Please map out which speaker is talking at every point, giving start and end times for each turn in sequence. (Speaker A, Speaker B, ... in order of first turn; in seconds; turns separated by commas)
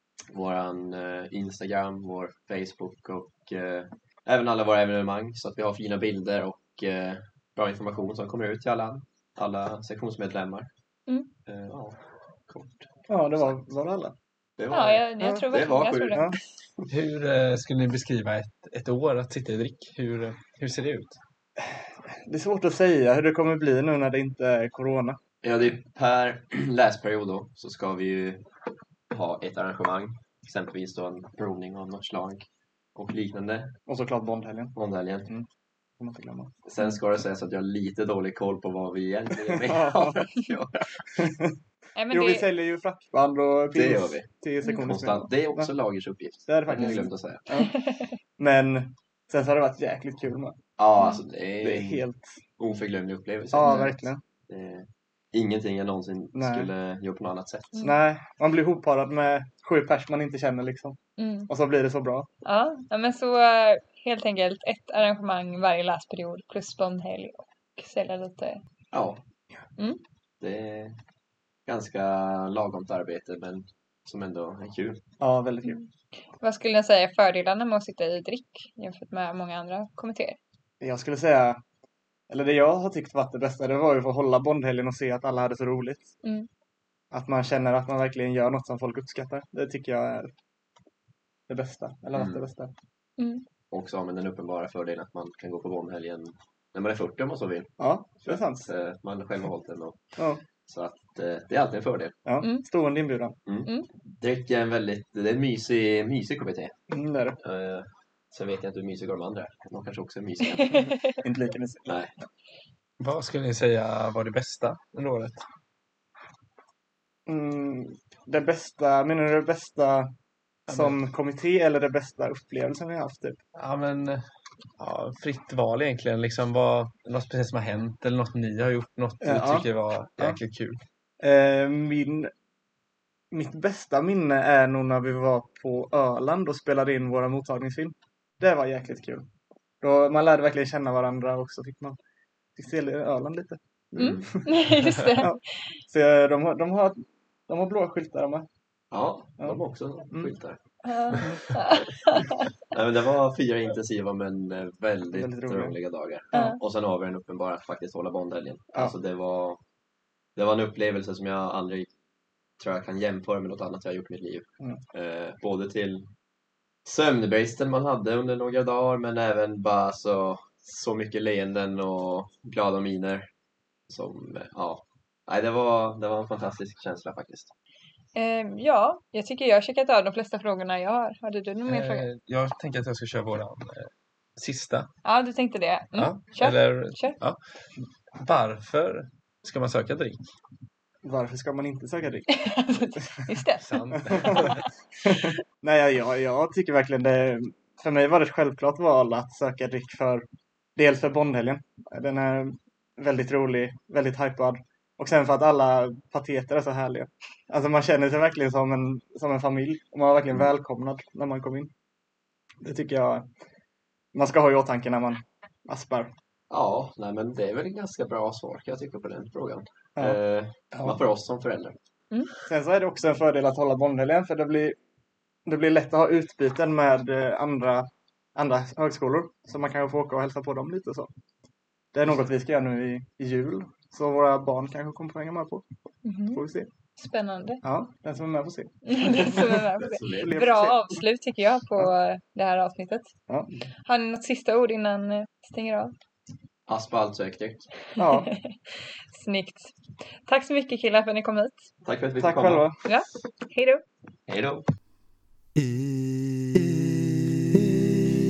Speaker A: 0.3-10.7, Speaker A: 11.4-13.6, Speaker B: 13.1-14.1, Speaker A: 14.6-16.4, Speaker C: 14.7-16.3, Speaker D: 16.9-21.2, Speaker B: 22.1-25.2, Speaker A: 25.4-28.4, Speaker A: 29.1-33.7, Speaker B: 33.9-34.8, Speaker A: 34.7-35.3, Speaker B: 36.0-36.5, Speaker A: 36.6-41.0, Speaker B: 39.7-40.2, Speaker B: 41.2-41.5, Speaker C: 42.0-42.5, Speaker B: 42.1-45.7, Speaker A: 43.7-47.5, Speaker B: 46.5-47.7, Speaker C: 46.8-47.0, Speaker C: 47.5-48.1, Speaker B: 48.4-50.6, Speaker A: 50.8-52.0, Speaker C: 51.0-51.2, Speaker B: 51.6-52.4, Speaker A: 52.6-57.9, Speaker B: 53.5-54.2, Speaker C: 53.6-53.9, Speaker B: 56.3-56.7, Speaker B: 57.8-62.3, Speaker C: 61.2-61.5, Speaker C: 62.4-68.6, Speaker A: 68.9-69.2, Speaker A: 70.4-71.0, Speaker A: 71.7-75.0, Speaker B: 75.2-75.8, Speaker C: 75.6-80.4, Speaker B: 80.8-81.6, Speaker B: 82.3-86.1, Speaker C: 86.2-86.5, Speaker B: 87.1-90.3, Speaker B: 91.5-92.7, Speaker A: 92.1-92.4, Speaker C: 93.2-93.4, Speaker A: 93.7-102.2, Speaker B: 97.8-98.7, Speaker B: 102.2-103.4, Speaker A: 103.5-106.7, Speaker B: 106.9-107.4, Speaker A: 107.4-110.9, Speaker C: 110.5-111.0, Speaker B: 111.2-112.0, Speaker A: 111.8-112.1, Speaker D: 113.0-115.4, Speaker B: 117.3-120.1, Speaker D: 120.7-121.0, Speaker B: 120.7-123.4, Speaker D: 123.5-124.2, Speaker D: 124.8-130.8, Speaker B: 129.2-130.4, Speaker B: 131.2-132.3, Speaker B: 133.3-139.3, Speaker B: 139.8-142.0, Speaker B: 142.6-144.5, Speaker A: 143.9-144.3, Speaker C: 144.0-145.4, Speaker B: 145.2-148.5, Speaker A: 148.9-151.2, Speaker B: 149.4-150.3, Speaker C: 150.8-152.4, Speaker B: 151.1-151.4, Speaker A: 152.7-159.6, Speaker B: 155.1-155.8, Speaker C: 156.3-156.6, Speaker A: 160.3-161.9, Speaker A: 162.6-166.1, Speaker A: 166.8-173.3, Speaker A: 173.9-177.5, Speaker C: 178.1-182.1, Speaker D: 181.7-184.9, Speaker C: 185.0-187.2, Speaker D: 185.9-187.4, Speaker D: 188.2-190.2, Speaker B: 191.0-192.3, Speaker C: 192.3-194.4, Speaker D: 193.6-194.6, Speaker B: 195.0-211.7, Speaker B: 212.6-213.3, Speaker B: 214.1-216.1, Speaker A: 216.5-221.7, Speaker B: 220.7-221.0, Speaker B: 222.4-224.8, Speaker B: 225.4-231.1, Speaker B: 231.9-235.6, Speaker C: 236.0-236.4, Speaker B: 236.3-236.7, Speaker C: 237.0-237.6, Speaker B: 237.6-239.3, Speaker C: 238.9-243.1, Speaker A: 239.3-240.3, Speaker B: 240.1-241.0, Speaker C: 243.8-245.9, Speaker A: 246.7-247.7, Speaker B: 248.0-248.3, Speaker C: 248.0-249.7, Speaker C: 250.2-251.6, Speaker A: 251.8-252.7, Speaker B: 252.2-252.8, Speaker C: 252.8-253.8, Speaker A: 254.3-254.7